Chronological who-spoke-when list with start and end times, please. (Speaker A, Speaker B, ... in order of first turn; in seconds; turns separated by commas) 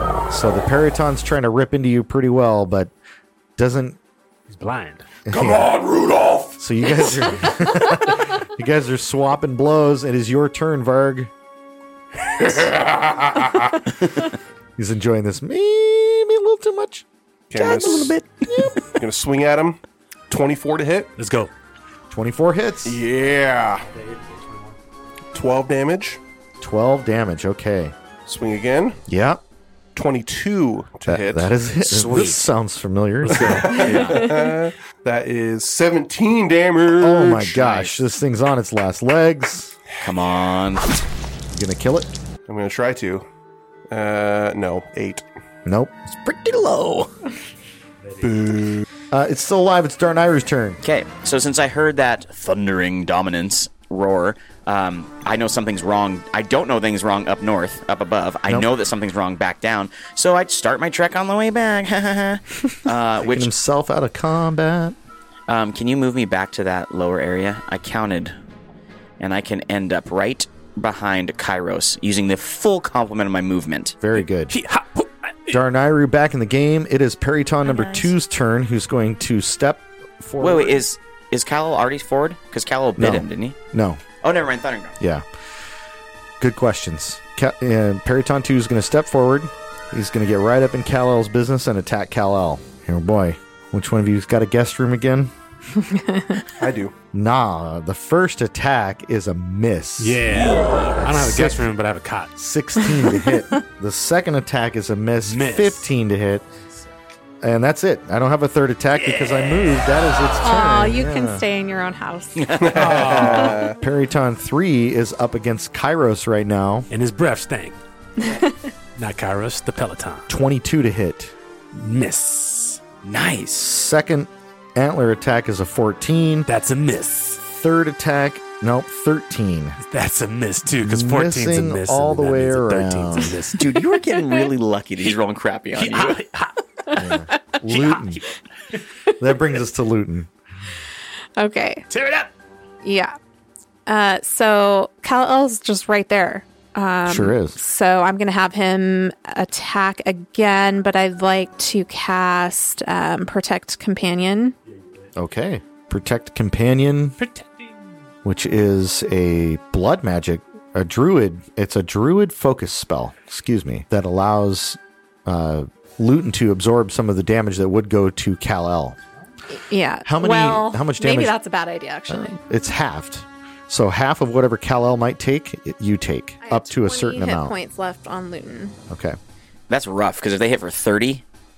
Speaker A: 0.3-2.9, Speaker A: 3.6-4.0, Speaker B: 4.5-5.0, Speaker A: 5.3-5.7, Speaker C: 5.3-6.6, Speaker A: 6.6-11.3, Speaker C: 12.4-13.8, Speaker A: 14.8-18.8, Speaker D: 17.5-18.1, Speaker D: 19.0-21.1, Speaker B: 21.2-21.5, Speaker A: 22.1-23.0, Speaker D: 22.8-23.9, Speaker B: 23.9-24.8, Speaker D: 25.3-26.2, Speaker A: 26.6-27.9, Speaker D: 28.2-29.0, Speaker A: 29.1-29.4, Speaker D: 29.9-31.5, Speaker A: 31.1-33.8, Speaker E: 31.8-32.5, Speaker B: 33.2-34.0, Speaker D: 33.4-37.7, Speaker E: 33.7-34.3, Speaker A: 37.0-39.8, Speaker E: 37.6-38.0, Speaker E: 40.0-40.9, Speaker A: 41.5-42.1, Speaker D: 42.5-43.2, Speaker D: 43.9-45.2, Speaker A: 45.6-47.1, Speaker E: 46.3-47.1, Speaker B: 48.0-48.4, Speaker D: 48.2-48.9, Speaker A: 49.1-50.8, Speaker E: 50.8-63.5, Speaker A: 63.2-65.0, Speaker E: 65.5-68.3, Speaker E: 69.2-74.0, Speaker A: 74.0-74.6, Speaker B: 74.5-75.6, Speaker A: 75.5-80.8, Speaker E: 80.4-83.5, Speaker A: 83.0-84.0, Speaker E: 84.2-85.0, Speaker A: 85.0-85.2, Speaker A: 86.4-95.3, Speaker F: 95.8-96.5, Speaker D: 96.6-96.9, Speaker A: 97.1-100.4, Speaker B: 100.0-102.3, Speaker E: 100.3-101.0, Speaker A: 101.0-101.7, Speaker A: 102.4-106.5, Speaker F: 102.9-103.4, Speaker B: 105.2-105.9, Speaker A: 107.4-111.4, Speaker B: 109.0-110.0, Speaker F: 110.4-112.5, Speaker E: 112.4-112.8, Speaker D: 112.6-113.8, Speaker B: 112.7-113.6, Speaker A: 113.0-116.9, Speaker B: 116.9-117.8, Speaker F: 118.2-118.7, Speaker B: 119.0-120.3, Speaker A: 120.3-121.3, Speaker B: 121.7-122.8, Speaker E: 123.0-123.7, Speaker A: 123.6-126.5, Speaker B: 126.5-127.5, Speaker A: 127.5-129.8, Speaker B: 129.8-133.6, Speaker A: 130.7-133.4, Speaker E: 133.6-136.2, Speaker B: 135.7-137.0, Speaker A: 136.9-138.2, Speaker B: 137.7-138.3, Speaker A: 139.2-140.3, Speaker F: 141.4-141.9, Speaker B: 141.9-142.3, Speaker F: 142.8-143.1, Speaker F: 143.9-154.5, Speaker A: 147.1-147.6, Speaker A: 155.2-157.2, Speaker B: 157.2-157.9, Speaker A: 158.2-169.0, Speaker F: 169.5-172.3, Speaker A: 170.1-171.3, Speaker A: 172.1-177.5, Speaker F: 176.4-178.8, Speaker A: 178.9-179.2, Speaker E: 179.7-181.2